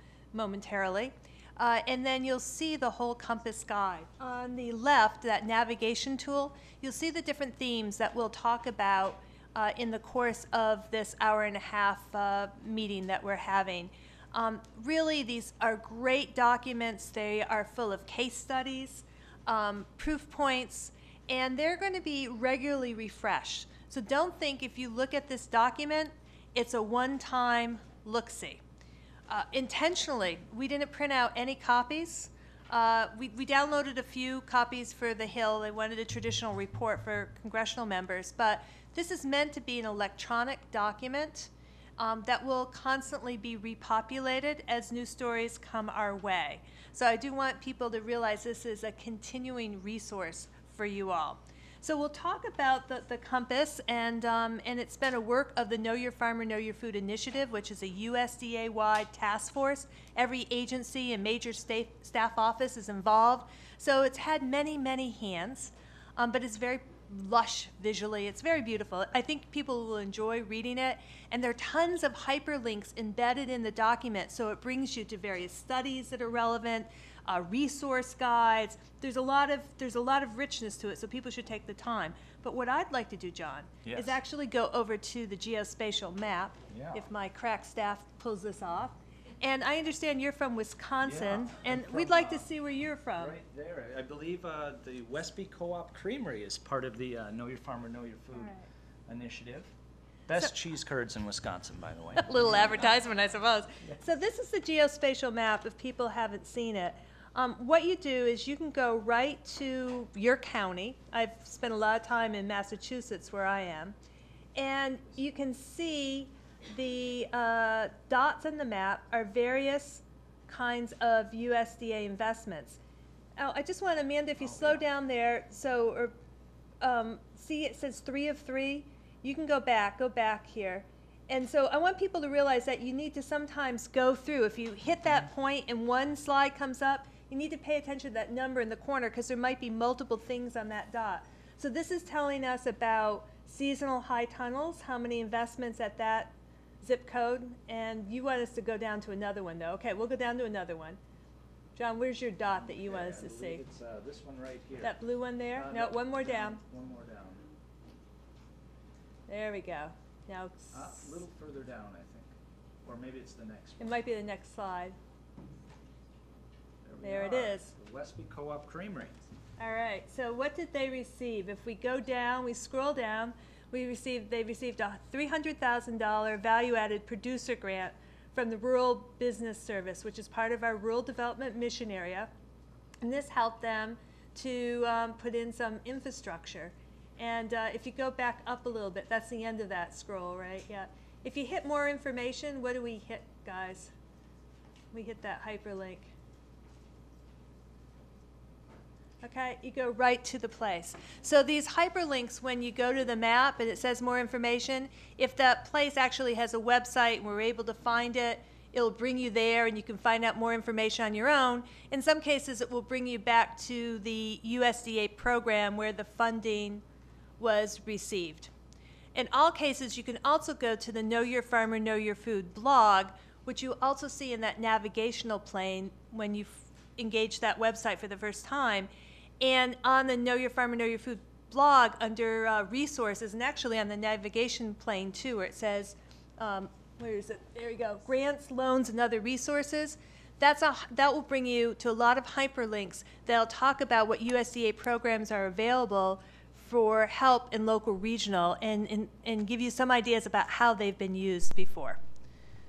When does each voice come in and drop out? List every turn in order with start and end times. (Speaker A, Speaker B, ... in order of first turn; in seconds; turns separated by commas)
Speaker A: 0.3-28.6, Speaker A: 29.3-93.4, Speaker B: 83.8-84.2, Speaker B: 86.7-87.0, Speaker B: 91.0-92.5, Speaker B: 93.2-98.5, Speaker A: 98.3-98.7, Speaker B: 99.1-99.7, Speaker B: 100.3-102.9, Speaker A: 102.2-114.0, Speaker A: 114.5-122.8, Speaker A: 123.4-126.1, Speaker B: 124.4-124.8, Speaker A: 126.8-151.0, Speaker A: 151.8-153.6, Speaker B: 152.6-155.0, Speaker A: 154.8-156.6, Speaker B: 155.5-157.4, Speaker A: 159.3-160.9, Speaker B: 160.7-162.3, Speaker B: 162.8-164.0, Speaker A: 163.8-165.0, Speaker B: 166.8-169.2, Speaker A: 167.0-167.7, Speaker A: 169.6-182.3, Speaker A: 183.0-193.9, Speaker A: 194.9-196.1, Speaker A: 199.2-216.8, Speaker A: 217.4-218.5, Speaker A: 219.1-252.0